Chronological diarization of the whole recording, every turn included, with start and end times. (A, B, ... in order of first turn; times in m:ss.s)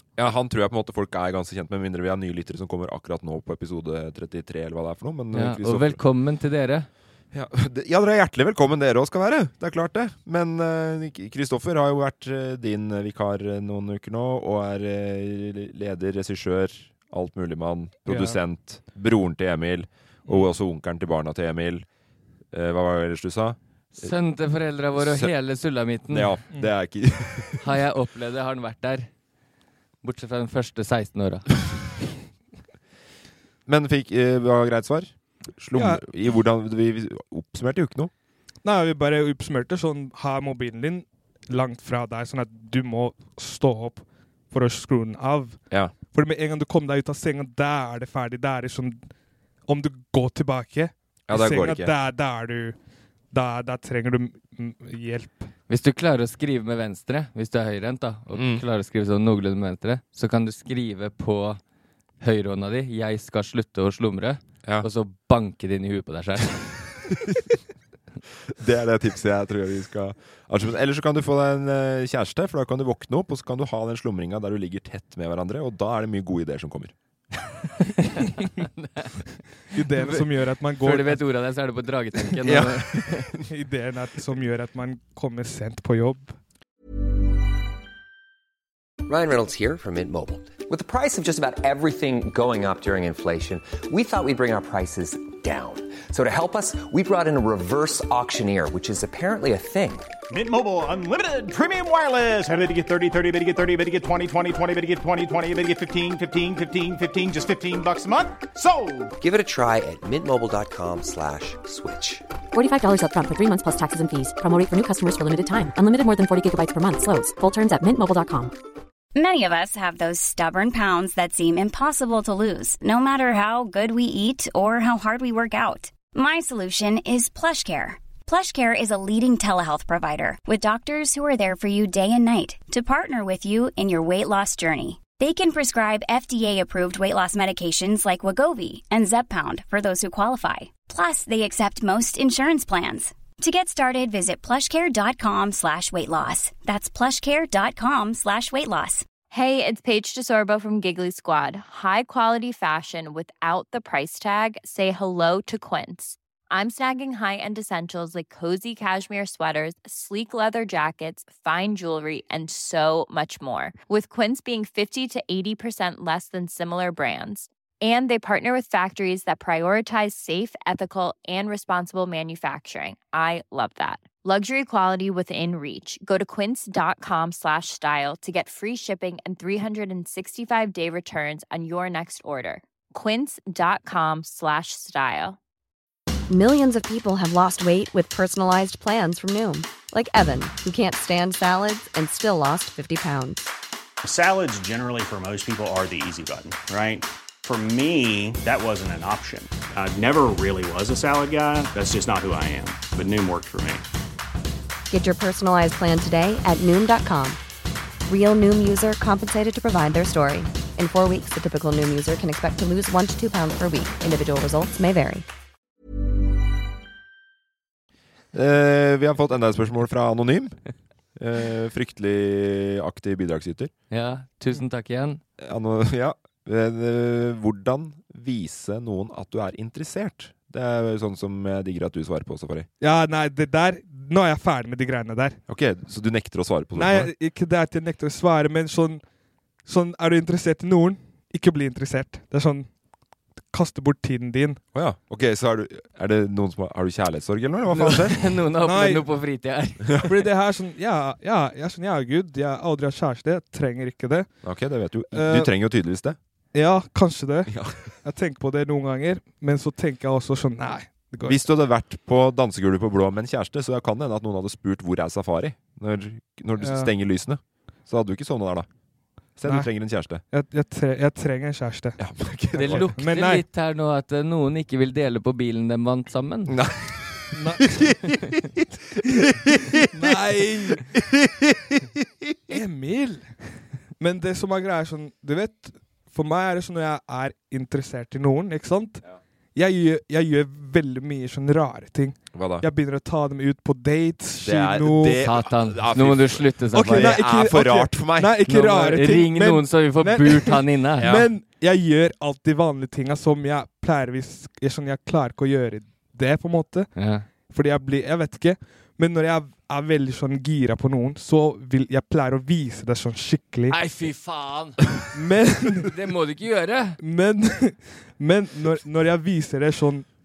0:00.2-0:06.0 A
0:05.3-0:06.9 B
0:07.3-0:21.8 A
0:18.1-0:18.4 C
0:22.5-0:24.1 A
0:23.9-0:26.3 B
0:25.0-0:25.3 A
0:26.1-0:27.6 A
0:27.6-0:29.1 B
0:30.0-0:31.4 B
0:33.6-0:38.1 A
0:35.7-0:36.0 C
0:38.6-0:49.0 C
0:45.7-0:45.9 A
0:49.7-0:52.8 C
0:51.3-0:51.9 A
0:53.3-0:55.5 C
0:55.7-1:01.6 B
0:58.3-0:58.6 A
1:02.2-1:06.8 B
1:08.5-1:16.9 A
1:17.8-1:19.1 B
1:19.7-1:21.2 C
1:19.9-1:20.2 B
1:20.8-1:23.3 B
1:22.4-1:23.4 A
1:23.5-1:26.3 C
1:29.0-1:40.0 D
1:40.3-1:49.1 E
1:49.2-1:52.2 D
1:52.5-1:58.5 F
1:59.1-2:29.1 G
2:29.3-3:05.4 H
3:06.3-3:13.5 I
3:14.0-3:23.8 J
3:24.9-3:27.4 I
3:28.1-3:35.2 I
3:38.3-3:40.6 A
3:41.2-3:43.7 A
3:43.9-3:45.2 B
3:45.4-3:52.7 A
3:52.8-3:55.4 C
3:55.5-3:57.1 A
3:56.7-3:59.0 C
3:59.6-4:02.7 C
4:03.5-4:04.6 C
4:04.7-4:08.2 A
4:07.7-4:10.0 B
4:08.6-4:09.0 C
4:10.0-4:14.3 C
4:14.4-4:16.2 A
4:15.1-4:15.5 C
4:16.5-4:17.5 C
4:17.5-4:17.8 A
4:18.0-4:21.4 C
4:21.2-4:28.7 A
4:26.6-4:26.9 C
4:29.4-4:30.2 A
4:30.3-4:32.0 C
4:32.0-4:32.9 A
4:32.5-4:36.5 B
4:32.6-4:33.4 C
4:36.5-4:40.1 A
4:37.3-4:37.7 C
4:39.9-4:40.8 C
4:40.7-4:41.8 A
4:42.5-4:43.3 C
4:44.0-4:49.0 C
4:49.5-4:55.3 C
4:52.3-4:52.7 A
4:54.4-4:58.4 A
4:55.2-4:57.2 B
4:56.7-5:06.9 C
4:58.5-5:01.1 B
5:01.0-5:01.3 A
5:07.0-5:07.3 B
5:07.5-5:13.8 C
5:13.7-5:14.8 B
5:15.1-5:15.9 C
5:15.8-5:17.0 B
5:17.0-5:20.0 C